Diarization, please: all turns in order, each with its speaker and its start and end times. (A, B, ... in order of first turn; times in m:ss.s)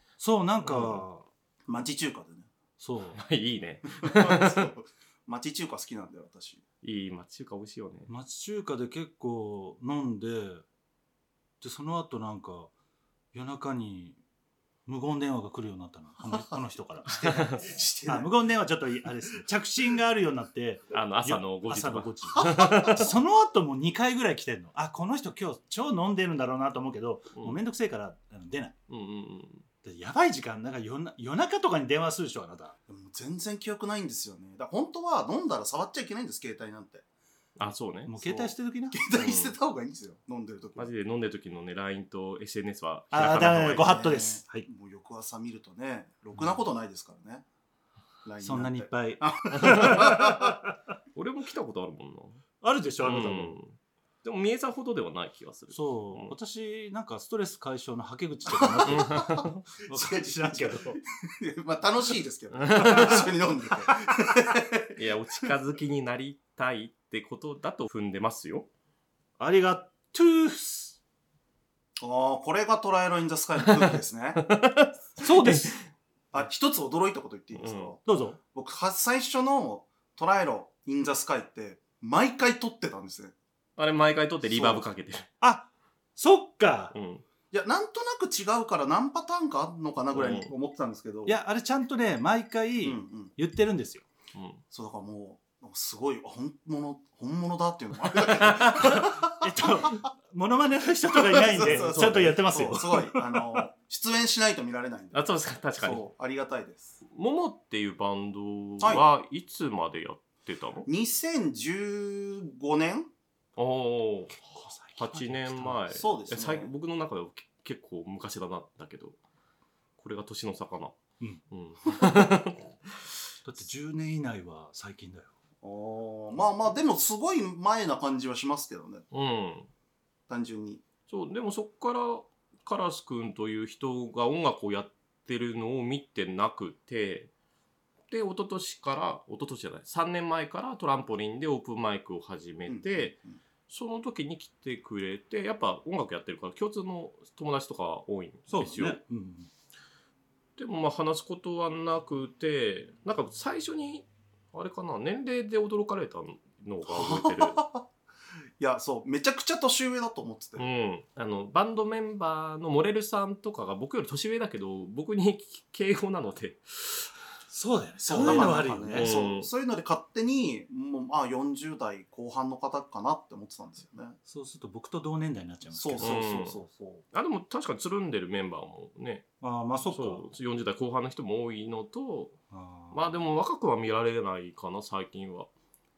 0:00.2-0:01.3 A
0:01.7-0:02.5 B
0:02.8-0:03.2 A
0:03.1-0:04.7 C
0:03.9-0:06.6 B
0:06.8-0:08.1 C
0:08.1-0:10.6 A
0:11.6-0:12.7 A
0:13.3-0:14.2 A
0:14.8-0:28.8 A
0:17.1-0:17.9 C
0:17.6-0:18.3 B
0:20.9-0:23.1 C
0:22.4-0:22.8 B
0:28.9-0:29.6 C
0:29.8-0:32.8 A
0:32.9-0:37.0 B
0:37.6-0:38.5 C
0:38.1-0:39.0 A
0:38.9-0:40.9 B
0:39.1-0:39.5 C
0:40.8-0:44.0 C
0:43.1-0:44.7 A
0:43.7-0:47.4 B
0:48.2-0:50.6 B
0:48.4-0:50.8 A
0:49.5-0:50.2 C
0:51.1-0:52.4 C
0:52.6-0:53.6 A
0:53.0-0:56.3 C
0:55.7-1:01.0 A
0:58.5-1:05.0 B
0:58.9-0:59.6 C
1:02.5-1:03.2 C
1:02.8-1:03.2 A
1:03.8-1:04.3 A
1:05.0-1:08.7 C
1:09.4-1:11.0 A
1:12.0-1:14.4 B
1:13.7-1:15.8 C
1:15.2-1:15.8 A
1:16.3-1:23.3 B
1:17.5-1:17.9 C
1:18.1-1:18.4 A
1:23.8-1:25.3 C
1:24.4-1:24.9 B
1:25.4-1:26.9 A
1:26.9-1:27.2 C
1:27.5-1:31.4 B
1:30.1-1:30.5 C
1:31.2-1:34.1 A
1:32.8-1:33.3 B
1:34.3-1:34.6 C
1:34.7-1:39.7 B
1:38.1-1:39.0 C
1:38.8-1:43.6 A
1:41.2-1:45.3 B
1:41.7-1:42.3 C
1:45.1-1:46.0 C
1:45.8-1:46.9 B
1:47.1-1:50.9 C
1:50.9-1:53.1 B
1:53.6-1:59.2 C
1:54.4-1:55.8 A
1:56.0-1:56.7 B
2:00.0-2:01.0 C
2:01.5-2:03.0 C
2:03.4-2:05.3 A
2:05.6-2:09.1 B
2:09.1-2:09.7 C
2:10.3-2:10.8 B
2:11.1-2:17.3 C
2:18.1-2:23.2 C
2:22.7-2:23.4 B
2:23.7-2:29.0 C
2:28.5-2:29.5 A
2:30.6-2:37.6 C
2:36.9-2:37.9 B
2:38.6-2:40.6 B
2:40.6-2:47.1 C
2:47.5-2:49.2 A
2:48.0-2:54.2 B
2:48.2-2:49.5 C
2:54.2-2:56.2 A
2:55.8-2:57.0 B
2:56.0-2:56.6 C
2:57.1-2:59.2 C
2:59.4-3:00.2 A
2:59.9-3:02.4 C
3:02.5-3:03.0 A
3:02.9-3:05.5 C